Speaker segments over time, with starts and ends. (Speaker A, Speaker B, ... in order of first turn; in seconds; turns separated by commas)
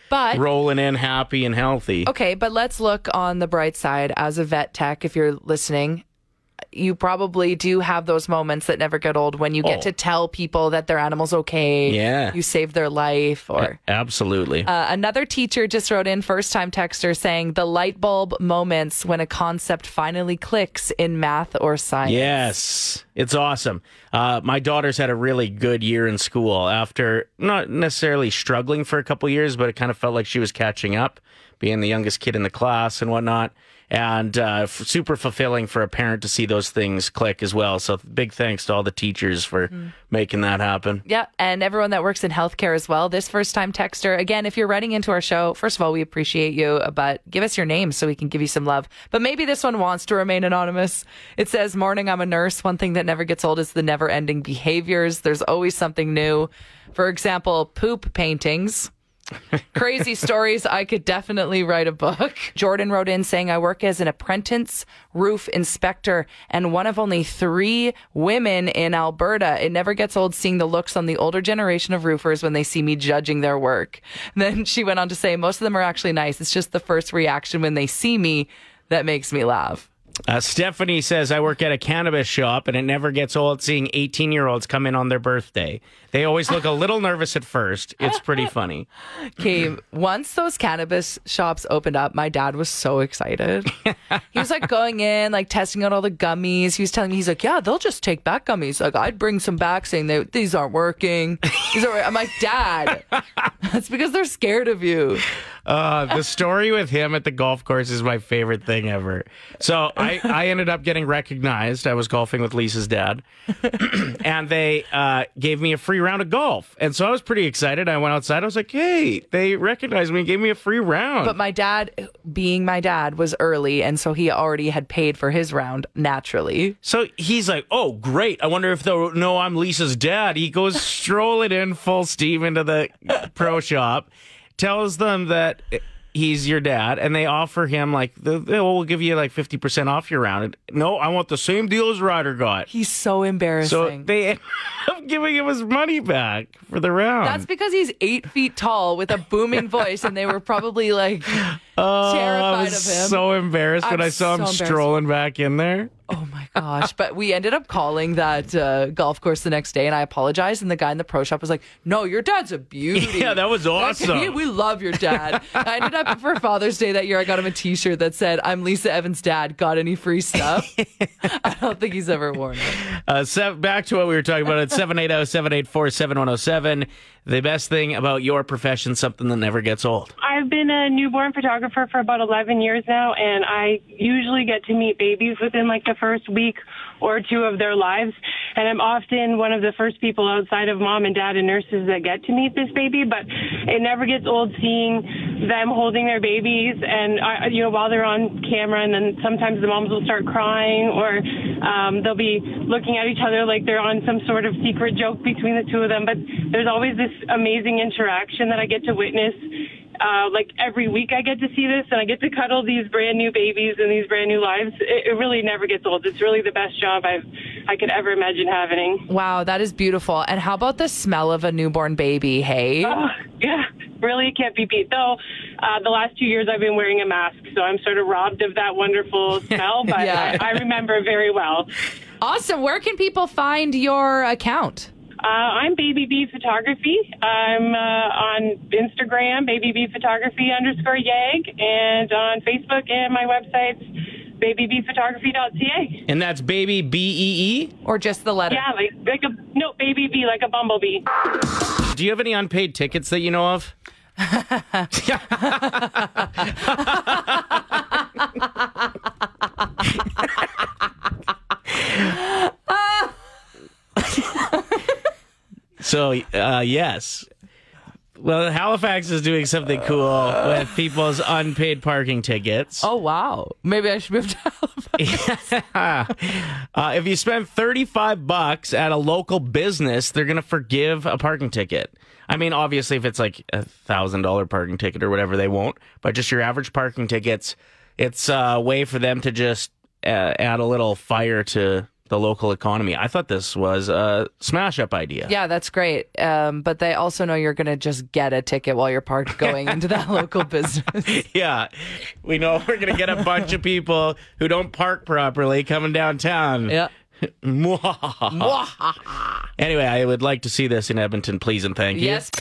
Speaker A: 0.1-0.4, Speaker B: 0.3-2.1, Speaker A: 2.0-6.0, Speaker A: 6.7-13.8, Speaker B: 9.6-9.9, Speaker B: 11.9-12.4, Speaker B: 13.6-14.7, Speaker A: 14.7-22.5, Speaker B: 22.1-41.0, Speaker A: 41.1-58.9, Speaker A: 59.7-79.9, Speaker B: 80.3-88.9, Speaker A: 89.3-93.8, Speaker A: 94.3-105.3, Speaker B: 105.7-121.4, Speaker A: 121.2-126.8, Speaker B: 126.8-142.7, Speaker A: 142.7-144.1, Speaker B: 143.6-147.5, Speaker A: 147.2-153.2, Speaker B: 151.3-155.9, Speaker A: 153.8-154.9, Speaker A: 156.1-172.8, Speaker B: 162.9-164.4, Speaker B: 165.0-165.4, Speaker B: 172.8-180.2, Speaker C: 180.2-209.4, Speaker C: 210.0-219.1, Speaker A: 219.1-223.0, Speaker C: 222.8-231.7, Speaker A: 230.0-230.4, Speaker B: 230.1-230.4, Speaker A: 232.2-234.9, Speaker C: 235.2-243.9, Speaker C: 244.4-246.0, Speaker B: 246.1-247.7, Speaker A: 247.8-248.6, Speaker C: 248.5-251.0, Speaker B: 251.8-253.7, Speaker A: 254.3-254.8, Speaker B: 254.9-257.5, Speaker A: 262.4-263.0, Speaker B: 265.8-267.3, Speaker B: 268.2-272.9, Speaker A: 272.8-275.3, Speaker B: 275.0-295.3, Speaker A: 295.3-301.1, Speaker B: 301.1-306.8, Speaker B: 307.4-308.6, Speaker A: 308.4-309.3, Speaker B: 309.6-312.2, Speaker A: 311.9-312.3